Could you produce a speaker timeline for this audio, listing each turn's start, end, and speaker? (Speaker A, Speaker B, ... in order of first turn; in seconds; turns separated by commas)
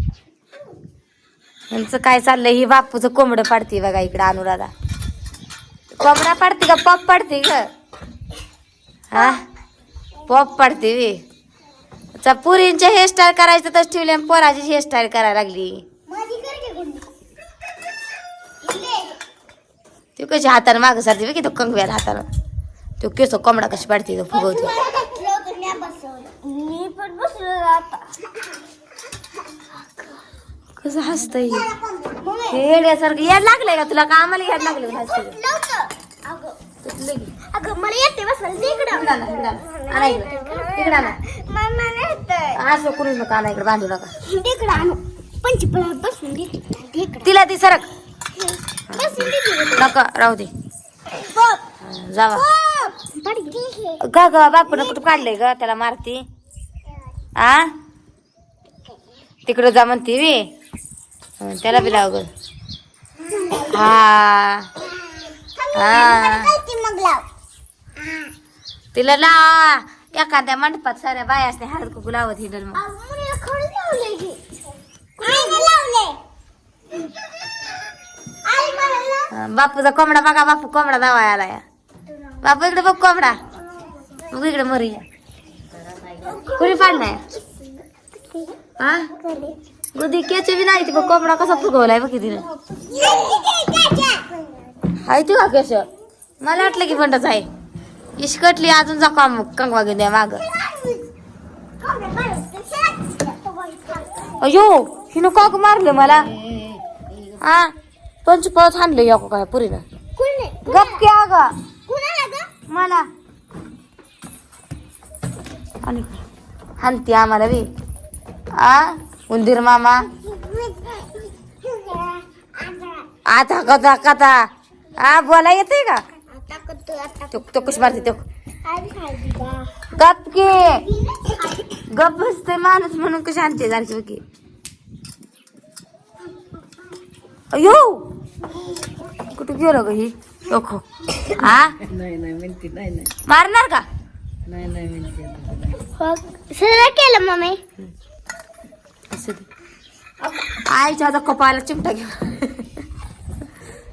Speaker A: 1.7-4.7, Speaker A: 6.0-7.7, Speaker A: 9.1-9.4, Speaker A: 10.3-11.2, Speaker A: 12.2-15.8, Speaker B: 16.1-17.1, Speaker B: 18.6-19.2, Speaker A: 20.1-22.2, Speaker A: 23.0-24.7, Speaker B: 24.3-28.4, Speaker A: 30.8-31.7, Speaker B: 31.5-32.6, Speaker A: 32.5-35.4, Speaker B: 34.8-36.6, Speaker A: 36.8-37.3, Speaker B: 37.5-42.6, Speaker A: 38.9-41.2, Speaker A: 42.5-44.1, Speaker B: 44.2-47.3, Speaker A: 47.2-47.9, Speaker B: 48.3-49.9, Speaker A: 48.9-50.5, Speaker B: 51.1-51.6, Speaker A: 51.8-52.5, Speaker B: 52.3-54.0, Speaker A: 54.0-56.2, Speaker A: 57.4-57.7, Speaker A: 59.5-60.4, Speaker A: 61.4-62.3, Speaker B: 63.2-63.9, Speaker A: 63.6-64.7, Speaker B: 65.0-67.2, Speaker A: 65.7-66.5, Speaker B: 68.0-68.3, Speaker A: 68.9-72.8, Speaker B: 72.7-74.4, Speaker B: 75.2-76.2, Speaker B: 78.4-79.3, Speaker A: 79.3-81.6, Speaker A: 82.4-83.4, Speaker A: 84.3-85.0, Speaker B: 86.2-88.6, Speaker A: 86.5-87.2, Speaker A: 88.8-89.1, Speaker B: 89.1-89.6, Speaker A: 90.0-92.5, Speaker B: 92.6-94.8, Speaker A: 95.0-95.8, Speaker A: 96.4-97.5, Speaker A: 98.2-100.4, Speaker B: 100.5-101.1, Speaker B: 101.8-104.4, Speaker A: 104.4-106.3, Speaker A: 107.3-107.7, Speaker A: 108.2-109.8, Speaker B: 110.2-111.0, Speaker A: 110.7-111.5, Speaker B: 111.9-112.5, Speaker A: 112.7-113.1, Speaker A: 115.8-116.2, Speaker A: 116.8-117.7, Speaker A: 118.5-120.1, Speaker B: 120.3-123.1, Speaker A: 123.3-126.0, Speaker B: 126.3-127.9, Speaker A: 127.3-128.2, Speaker B: 128.6-129.9, Speaker A: 129.9-130.8, Speaker B: 130.9-131.8, Speaker A: 131.9-134.2, Speaker A: 137.5-138.1, Speaker A: 139.3-141.8, Speaker C: 141.8-143.1, Speaker A: 143.2-143.8, Speaker C: 144.4-145.7, Speaker B: 145.9-147.6, Speaker A: 149.1-149.5, Speaker A: 150.3-152.8